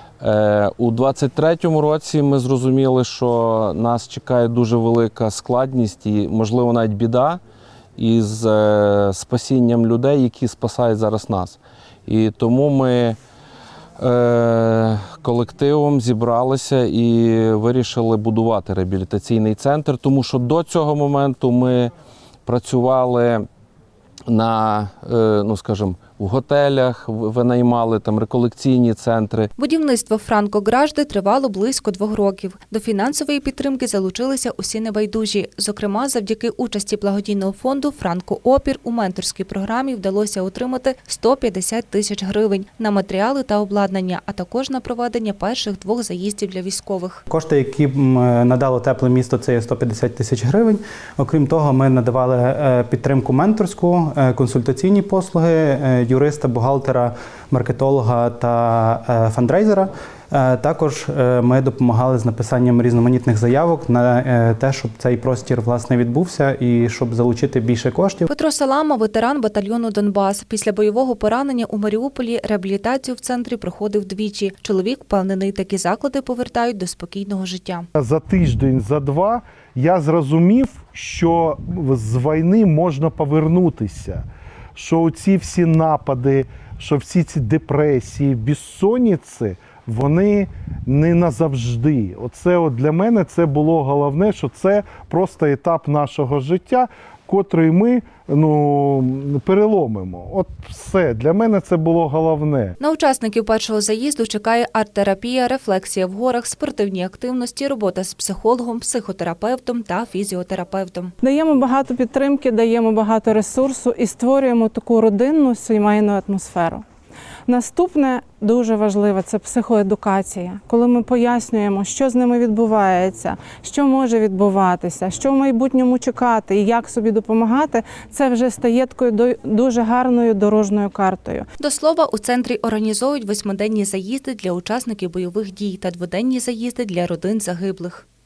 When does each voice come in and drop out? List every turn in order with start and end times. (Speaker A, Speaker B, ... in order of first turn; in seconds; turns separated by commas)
Speaker A: 0.2-7.4, Speaker A: 8.0-13.2, Speaker A: 14.0-21.9, Speaker A: 22.4-23.4, Speaker A: 24.3-29.5, Speaker B: 29.6-47.2, Speaker C: 47.3-68.3, Speaker B: 68.3-77.8, Speaker D: 78.0-84.2, Speaker D: 84.8-102.7, Speaker B: 102.8-111.1, Speaker E: 111.2-116.8, Speaker E: 117.5-131.4, Speaker B: 131.6-138.0